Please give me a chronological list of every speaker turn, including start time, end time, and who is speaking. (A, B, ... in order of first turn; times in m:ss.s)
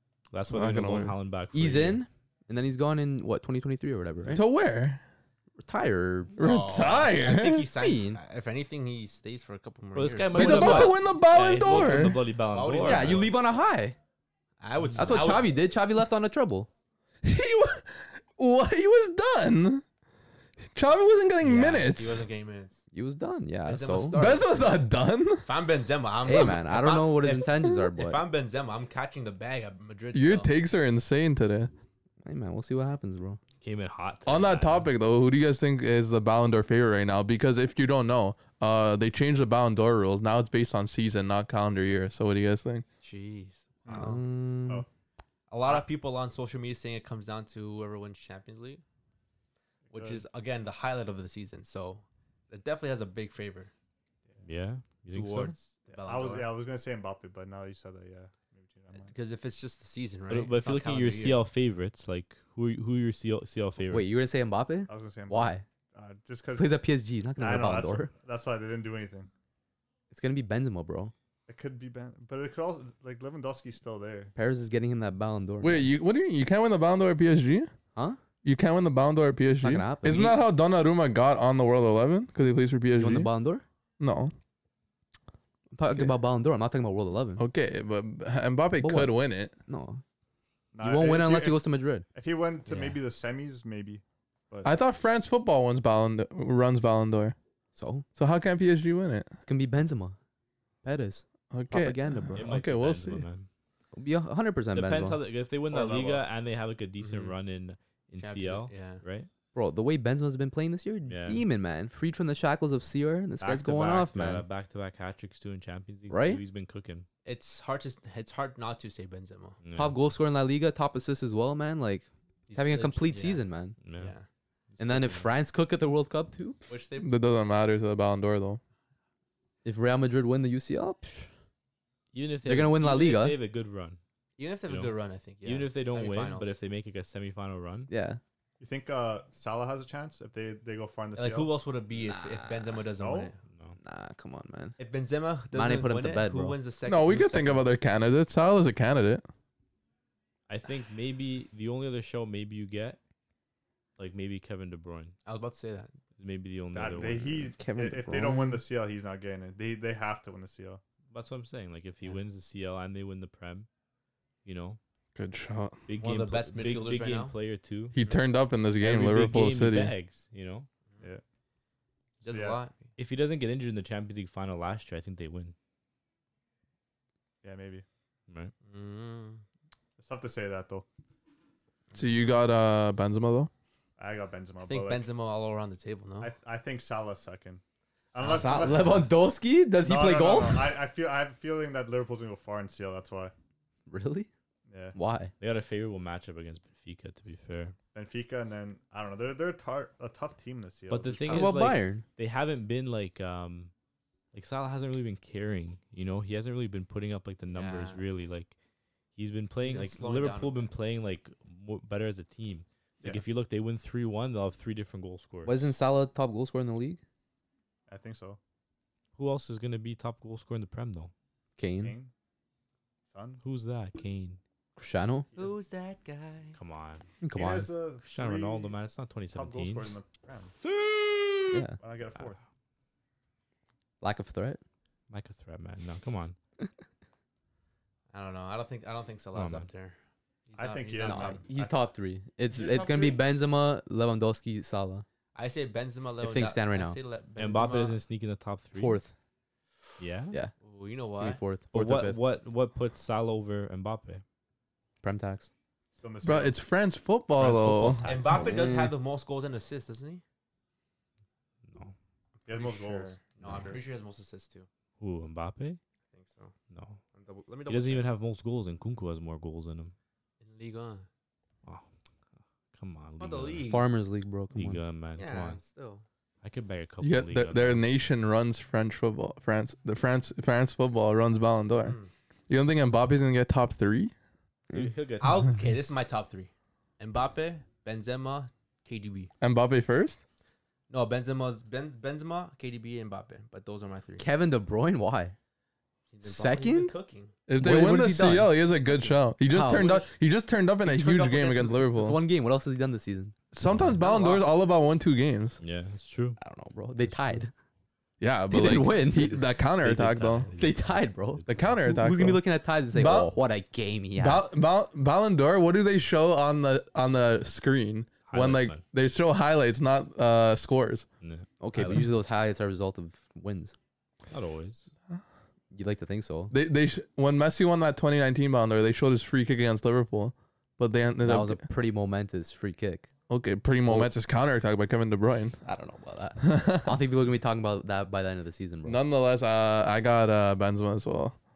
0:00.3-0:02.0 A
0:00.5-0:01.2 B
0:01.5-0:04.4 C
0:04.3-0:05.0 B
0:05.6-0:06.4 C
0:06.4-0:07.7 B
0:06.4-0:11.0 D
0:07.7-0:08.2 C
0:09.9-0:13.3 A
0:10.3-0:12.2 B
0:10.5-0:10.9 C
0:11.6-0:13.4 D
0:12.8-0:14.0 C
0:14.6-0:15.5 D
0:15.0-0:16.7 C
0:17.2-0:19.8 B
0:20.7-0:22.3 B
0:21.4-0:22.8 D
0:22.9-0:24.2 C
0:23.6-0:24.9 D
0:24.1-0:25.4 B
0:25.4-0:30.5 D
0:26.2-0:28.2 C
0:30.1-0:31.7 B
0:32.2-0:33.4 C
0:33.6-0:34.9 A
0:34.2-0:42.8 B
0:43.0-0:44.2 D
0:43.8-0:44.9 E
0:43.9-0:44.8 C
0:45.5-0:48.8 D
0:49.9-0:50.2 E
0:49.9-0:53.7 D
0:54.4-0:55.6 A
0:55.1-0:56.5 D
0:55.9-0:59.1 E
0:59.0-1:01.4 D
1:00.3-1:04.2 A
1:03.9-1:05.6 C
1:04.9-1:06.8 E
1:06.6-1:08.1 C
1:07.4-1:09.3 E
1:10.1-1:11.1 C
1:11.5-1:14.3 E
1:14.4-1:15.9 C
1:15.6-1:17.7 B
1:18.4-1:23.3 B
1:19.6-1:20.4 C
1:23.0-1:23.6 C
1:24.0-1:24.3 B
1:25.7-1:27.4 C
1:27.4-1:29.5 B
1:28.8-1:29.1 C
1:29.7-1:30.0 C
1:30.7-1:31.6 E
1:30.8-1:32.0 C
1:32.1-1:34.7 E
1:34.6-1:37.3 B
1:37.7-1:38.0 C
1:38.2-1:39.3 B
1:39.4-1:40.2 C
1:40.8-1:42.4 C
1:41.5-1:43.2 B
1:42.4-1:43.5 A
1:43.9-1:45.2 C
1:44.7-1:49.3 A
1:45.7-1:46.2 E
1:47.0-1:47.3 D
1:48.2-1:49.0 D
1:49.5-1:54.4 C
1:51.1-1:51.4 A
1:53.4-1:57.1 A
1:56.1-1:56.4 C
1:57.2-1:59.6 D
1:59.6-2:00.0 A
1:59.7-2:03.8 C
2:02.5-2:04.2 D
2:03.8-2:04.1 A
2:04.7-2:05.3 A
2:04.8-2:06.6 C
2:06.7-2:07.1 D
2:07.0-2:08.6 B
2:09.6-2:11.3 C
2:12.1-2:14.0 A
2:12.4-2:13.4 C
2:14.4-2:16.5 D
2:15.4-2:17.9 A
2:17.9-2:18.2 C
2:18.6-2:21.6 E
2:21.2-2:23.4 D
2:22.0-2:22.8 C
2:22.9-2:23.3 E
2:23.5-2:23.8 A
2:23.8-2:24.8 C
2:24.8-2:27.6 D
2:25.5-2:26.6 C
2:26.8-2:29.2 B
2:30.5-2:33.0 A
2:34.0-2:35.1 A
2:35.2-2:35.9 D
2:36.2-2:37.5 A
2:36.7-2:40.8 E
2:37.6-2:38.6 C
2:41.1-2:43.7 A
2:44.4-2:44.8 A
2:45.2-2:45.8 B
2:45.9-2:48.0 A
2:46.0-2:47.4 D
2:47.9-2:49.9 B
2:48.8-2:50.7 A
2:52.2-2:52.9 D
2:52.2-2:52.6 E
2:53.0-2:55.5 A
2:57.4-2:57.8 E
2:58.6-2:59.4 D
3:00.0-3:00.8 E
3:01.9-3:03.5 B
3:04.0-3:05.1 E
3:04.6-3:06.3 D
3:06.2-3:07.6 E
3:08.1-3:09.1 E
3:08.2-3:10.7 C
3:08.2-3:08.9 D
3:09.8-3:13.3 E
3:13.9-3:14.3 C
3:14.7-3:15.0 E
3:14.9-3:15.3 C
3:15.4-3:17.7 A
3:17.9-3:21.5 E
3:20.9-3:23.7 A
3:21.3-3:22.0 C
3:24.3-3:28.5 A
3:27.5-3:28.0 D
3:29.2-3:35.5 A
3:29.6-3:30.7 D
3:35.4-3:37.0 C
3:37.9-3:38.4 E
3:39.2-3:41.1 A
3:41.6-3:41.9 C
3:41.8-3:42.1 E
3:43.1-3:43.4 E
3:43.4-3:44.4 A
3:44.8-3:45.3 C
3:45.4-3:46.6 D
3:46.5-3:47.0 A
3:47.2-3:47.7 C
3:47.3-3:48.8 E
3:48.0-3:50.0 A
3:49.3-3:50.5 E
3:51.5-3:51.8 C
3:51.8-3:52.4 E
3:54.0-3:54.6 C
3:55.1-3:56.4 A
3:58.1-4:00.0 D
3:59.3-3:59.7 A
4:00.5-4:01.5 D
4:00.6-4:01.8 E
4:01.0-4:05.0 C
4:02.5-4:03.2 D
4:05.3-4:08.0 D
4:06.2-4:07.0 C
4:07.4-4:09.0 A
4:08.7-4:09.1 C
4:10.0-4:10.4 A
4:10.6-4:11.4 D
4:11.2-4:12.2 C
4:11.7-4:14.2 A
4:15.0-4:15.5 C
4:16.0-4:16.6 E
4:16.2-4:18.1 B
4:17.4-4:18.4 A
4:17.8-4:20.2 D
4:18.2-4:18.9 C
4:21.7-4:21.9 A
4:22.4-4:24.7 D
4:22.5-4:23.9 E
4:25.0-4:25.8 A
4:26.1-4:26.5 D
4:26.7-4:27.0 A
4:27.1-4:28.1 D
4:27.7-4:29.9 A
4:30.4-4:31.1 D
4:32.7-4:33.8 A
4:33.2-4:33.9 D
4:33.6-4:34.8 C
4:34.5-4:35.6 A
4:35.1-4:36.0 D
4:36.4-4:37.8 A
4:37.0-4:42.0 B
4:41.8-4:42.1 D
4:42.5-4:44.1 B
4:44.7-4:45.5 A
4:45.2-4:49.3 D
4:49.4-4:50.2 B
4:50.9-4:54.3 D
4:54.2-4:55.3 C
4:56.1-4:57.3 D
4:56.2-4:56.9 C
4:57.5-5:02.2 B
4:57.6-4:58.6 C
4:59.5-5:00.0 C
4:59.6-5:00.0 D
5:00.9-5:01.8 D
5:00.9-5:03.3 C
5:03.5-5:05.6 B
5:03.7-5:04.2 A
5:04.0-5:04.4 D
5:05.6-5:06.4 A
5:06.4-5:07.5 C
5:07.0-5:07.4 A
5:08.2-5:10.5 B
5:08.5-5:09.4 C
5:09.8-5:11.6 A
5:10.6-5:14.4 C
5:11.5-5:13.3 B
5:14.2-5:21.0 B
5:18.3-5:18.8 A
5:21.2-5:22.0 A
5:21.6-5:23.7 C
5:24.3-5:24.9 A
5:25.7-5:26.5 C
5:26.5-5:31.6 B
5:31.2-5:33.1 C
5:33.3-5:35.6 B
5:33.8-5:34.1 C
5:35.6-5:39.0 C
5:36.4-5:36.9 B
5:38.8-5:41.4 B